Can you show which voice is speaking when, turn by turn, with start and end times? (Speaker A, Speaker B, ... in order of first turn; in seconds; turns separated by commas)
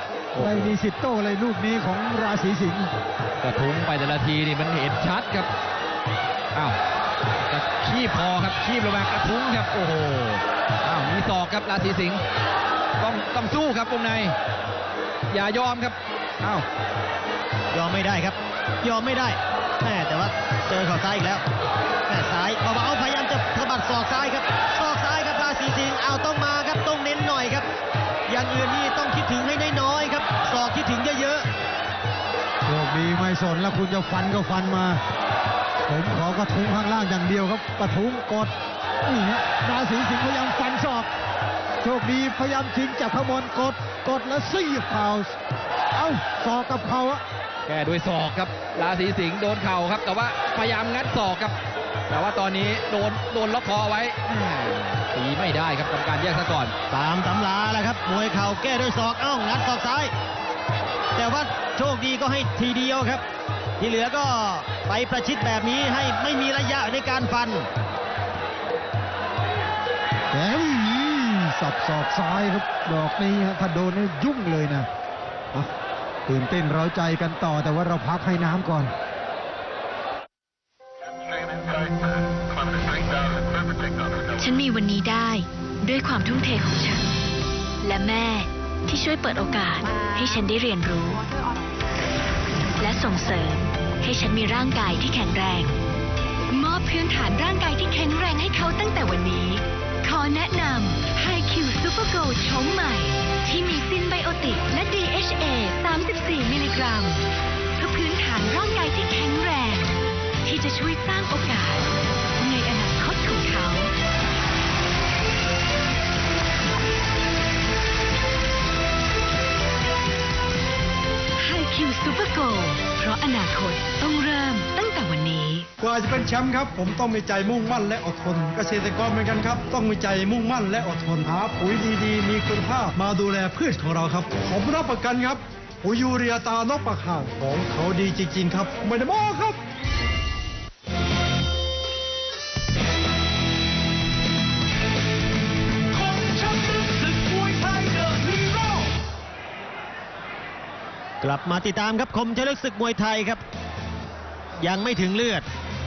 Speaker A: 0.3-0.8, Speaker B: 0.3-2.9, Speaker A: 3.4-5.5, Speaker A: 7.5-12.2, Speaker A: 13.0-14.4, Speaker A: 15.3-16.6, Speaker C: 17.7-21.4, Speaker C: 22.1-27.7, Speaker C: 28.3-31.5, Speaker B: 32.6-35.0, Speaker B: 35.9-41.1, Speaker B: 41.8-45.4, Speaker B: 46.0-47.2, Speaker A: 47.6-51.5, Speaker A: 52.1-56.7, Speaker C: 56.9-60.1, Speaker C: 61.1-63.2, Speaker C: 63.8-67.7, Speaker B: 70.3-74.9, Speaker B: 76.3-78.9, Speaker D: 84.4-87.0, Speaker D: 87.8-91.3, Speaker D: 92.8-95.7, Speaker D: 96.5-107.2, Speaker D: 107.8-109.9, Speaker D: 110.4-111.9, Speaker D: 112.4-113.9, Speaker D: 121.4-125.7, Speaker E: 125.8-139.6, Speaker E: 145.9-148.9, Speaker C: 151.2-153.4, Speaker C: 154.6-155.4